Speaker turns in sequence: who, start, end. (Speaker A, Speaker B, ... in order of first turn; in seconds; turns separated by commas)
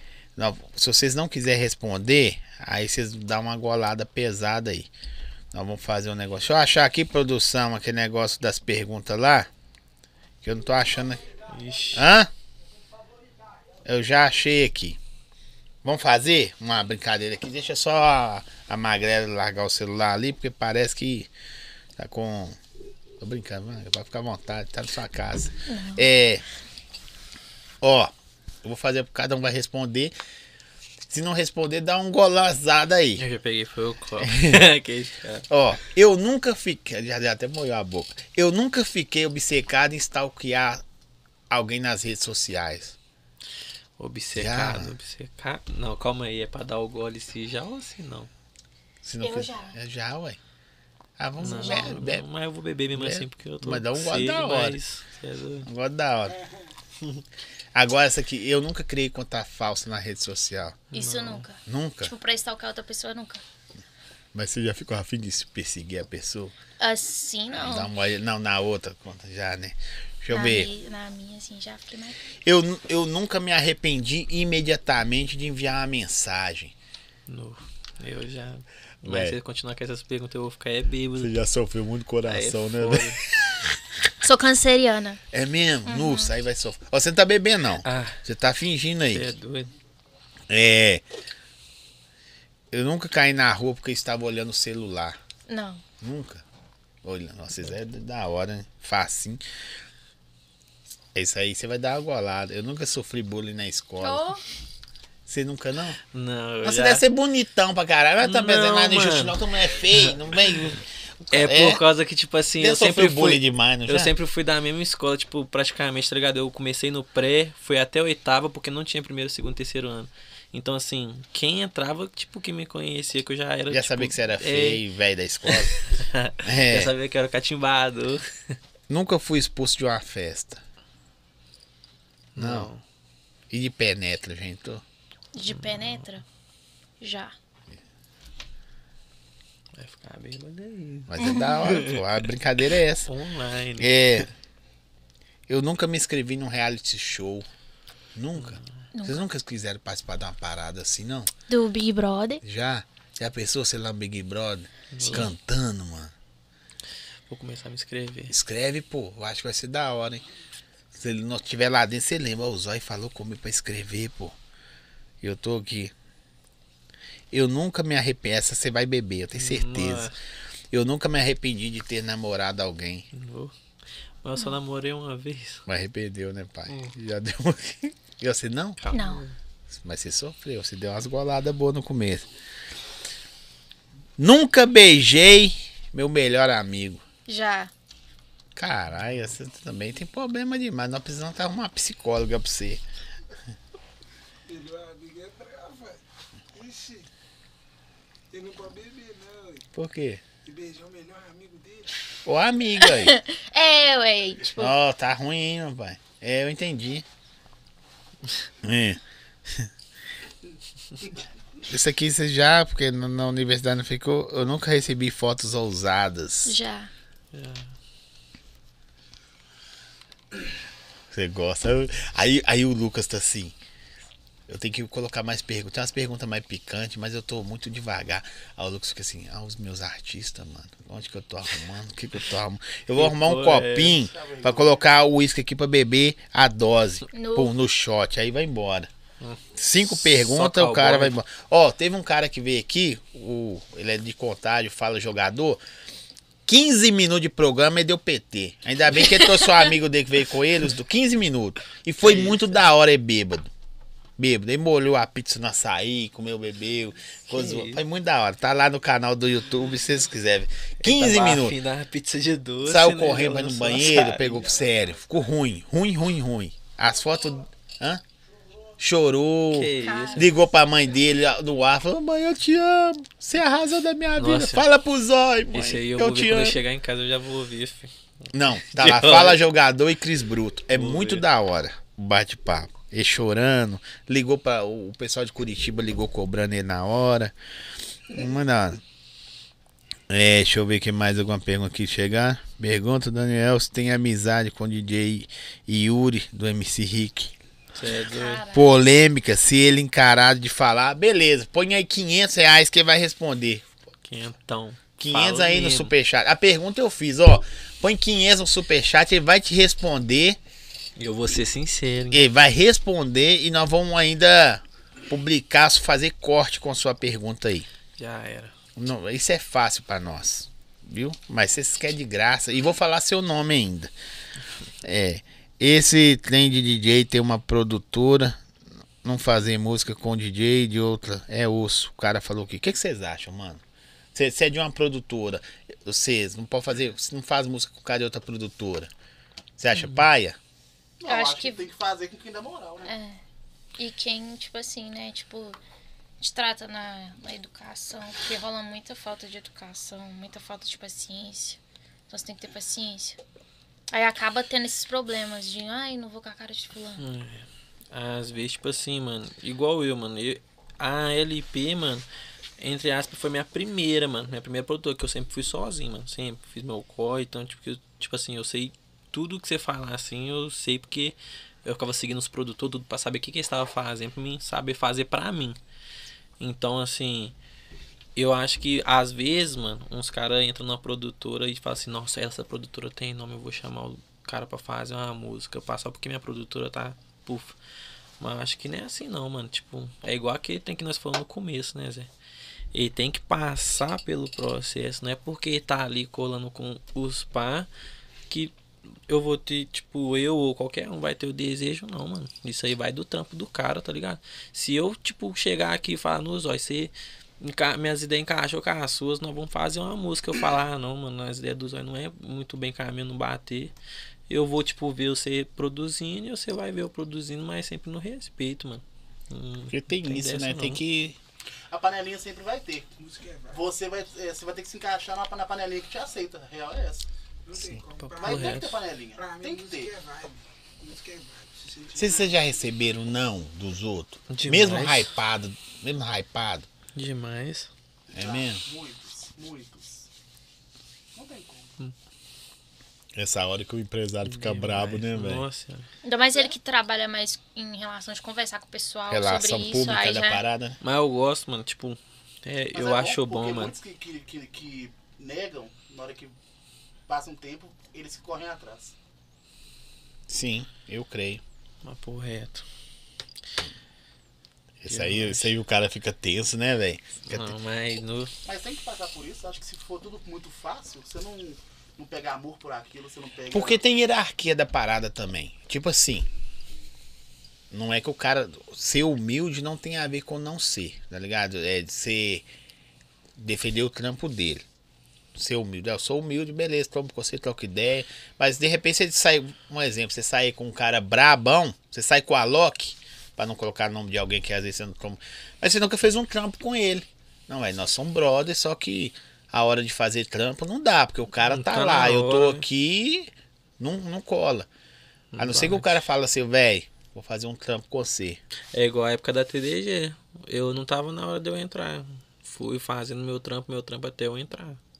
Speaker A: 0.4-4.9, Speaker A: 5.5-9.5, Speaker A: 10.4-11.3, Speaker B: 11.5-12.0, Speaker A: 11.9-12.3, Speaker A: 13.8-15.0, Speaker A: 15.8-21.3, Speaker A: 22.0-22.6, Speaker A: 23.2-26.4, Speaker C: 25.6-26.1, Speaker A: 27.8-28.1, Speaker A: 28.6-30.1, Speaker A: 31.1-33.2, Speaker B: 33.2-35.5, Speaker A: 34.2-34.6, Speaker A: 35.5-40.8, Speaker A: 41.5-43.0, Speaker B: 44.0-48.3, Speaker A: 44.3-44.9, Speaker A: 49.0-50.4, Speaker C: 49.2-49.8, Speaker A: 51.2-52.2, Speaker B: 51.4-55.7, Speaker C: 51.5-51.9, Speaker A: 52.9-54.8, Speaker A: 55.6-56.4, Speaker A: 57.7-60.8, Speaker B: 60.9-61.5, Speaker C: 60.9-63.4, Speaker A: 61.6-62.1, Speaker A: 64.3-66.5, Speaker C: 66.8-67.9, Speaker A: 67.5-70.7, Speaker C: 70.3-72.2, Speaker A: 72.4-76.7, Speaker B: 77.3-81.3, Speaker A: 79.0-79.4, Speaker A: 81.2-83.7, Speaker B: 82.3-83.2, Speaker C: 84.2-85.2, Speaker A: 85.3-89.3, Speaker C: 85.8-86.3, Speaker B: 87.8-88.2, Speaker B: 89.1-89.7, Speaker A: 90.5-91.0, Speaker A: 92.7-95.2, Speaker C: 95.5-95.8, Speaker A: 96.0-96.4, Speaker A: 97.0-99.4, Speaker A: 101.1-104.2, Speaker C: 104.0-104.4, Speaker A: 105.3-106.0, Speaker B: 106.1-107.0, Speaker A: 106.6-111.8, Speaker B: 108.2-110.2, Speaker B: 111.3-124.8, Speaker A: 112.6-114.1, Speaker A: 123.7-125.8, Speaker B: 125.4-128.3, Speaker A: 126.4-126.9, Speaker A: 128.9-130.6, Speaker B: 132.3-132.8, Speaker A: 132.4-132.7, Speaker A: 133.5-134.8, Speaker C: 135.3-136.2, Speaker B: 135.5-136.1, Speaker C: 137.0-137.3, Speaker B: 139.8-142.2, Speaker A: 141.1-143.1, Speaker C: 141.2-141.9, Speaker B: 143.1-143.9, Speaker A: 143.8-144.3, Speaker A: 145.5-147.5, Speaker A: 148.1-151.3, Speaker B: 148.3-148.8, Speaker C: 148.9-149.2, Speaker C: 151.5-152.4, Speaker A: 152.4-156.1, Speaker B: 154.9-155.3, Speaker B: 157.3-158.3, Speaker A: 158.3-160.2, Speaker A: 160.9-164.3, Speaker A: 165.2-165.9, Speaker A: 167.3-170.1, Speaker B: 169.3-170.2, Speaker A: 170.7-173.1, Speaker B: 173.1-173.5, Speaker B: 174.2-175.6, Speaker A: 175.7-178.8, Speaker B: 178.8-179.3, Speaker C: 178.9-179.2, Speaker A: 179.7-182.2, Speaker A: 184.2-187.0, Speaker C: 187.3-187.7, Speaker A: 188.6-192.8, Speaker D: 194.5-197.1, Speaker D: 198.3-199.7, Speaker A: 199.7-200.2, Speaker D: 200.4-202.0, Speaker A: 202.2-203.2, Speaker C: 202.8-204.7, Speaker A: 204.6-207.0, Speaker A: 208.6-209.7, Speaker A: 211.7-216.6, Speaker C: 216.4-216.9, Speaker B: 217.3-217.7, Speaker A: 221.1-223.5, Speaker A: 224.5-238.9, Speaker B: 232.9-234.0, Speaker E: 233.8-234.9, Speaker C: 237.1-237.5, Speaker B: 239.2-241.2, Speaker A: 239.5-245.6, Speaker A: 246.5-253.5, Speaker B: 252.0-252.4, Speaker A: 254.2-261.5, Speaker B: 257.3-257.8, Speaker B: 260.8-264.4, Speaker A: 262.6-268.0, Speaker E: 264.2-265.1, Speaker A: 268.8-276.6, Speaker B: 269.5-270.3, Speaker C: 269.8-270.4, Speaker B: 274.2-274.6, Speaker B: 275.5-277.9, Speaker A: 278.3-287.3, Speaker B: 278.7-279.4, Speaker B: 280.7-281.2, Speaker A: 288.1-288.8, Speaker A: 290.1-297.3, Speaker B: 297.7-298.4, Speaker C: 298.1-298.7, Speaker A: 298.5-303.6, Speaker B: 304.1-305.9, Speaker A: 305.0-310.4, Speaker B: 311.0-312.2, Speaker A: 312.1-317.7, Speaker B: 318.0-318.5, Speaker A: 318.8-323.9, Speaker A: 324.8-328.4, Speaker A: 329.0-333.6, Speaker A: 334.1-338.9, Speaker A: 339.6-340.4, Speaker B: 339.8-340.0, Speaker E: 341.0-342.9, Speaker C: 341.0-341.6, Speaker C: 342.8-343.2, Speaker C: 343.8-345.6, Speaker C: 346.2-353.2, Speaker C: 353.9-357.0, Speaker B: 357.0-362.0, Speaker B: 362.6-375.6, Speaker B: 376.4-377.3, Speaker B: 378.1-387.6, Speaker B: 388.2-392.1, Speaker B: 392.7-397.7, Speaker B: 399.1-413.7, Speaker B: 414.3-420.8, Speaker A: 419.7-421.2, Speaker E: 421.7-427.1, Speaker D: 423.0-423.6, Speaker D: 427.4-432.4, Speaker B: 428.0-428.8, Speaker E: 428.2-429.9, Speaker A: 431.9-436.7, Speaker B: 434.3-435.1, Speaker B: 436.9-437.7, Speaker A: 438.1-438.6, Speaker E: 438.1-440.1, Speaker D: 441.1-441.8, Speaker A: 443.1-445.4, Speaker B: 444.2-445.9, Speaker C: 446.0-450.4, Speaker A: 449.1-450.8, Speaker B: 450.8-453.7, Speaker E: 452.7-456.4, Speaker E: 457.1-458.9, Speaker A: 460.3-461.4, Speaker B: 461.8-462.6, Speaker A: 464.8-467.5, Speaker B: 464.9-465.5, Speaker B: 467.3-468.3, Speaker E: 468.4-473.8, Speaker A: 473.5-476.3, Speaker A: 477.7-482.4, Speaker A: 483.4-484.6, Speaker A: 485.3-504.7, Speaker B: 501.4-502.6, Speaker B: 505.3-505.9, Speaker A: 505.4-508.4, Speaker B: 508.7-514.8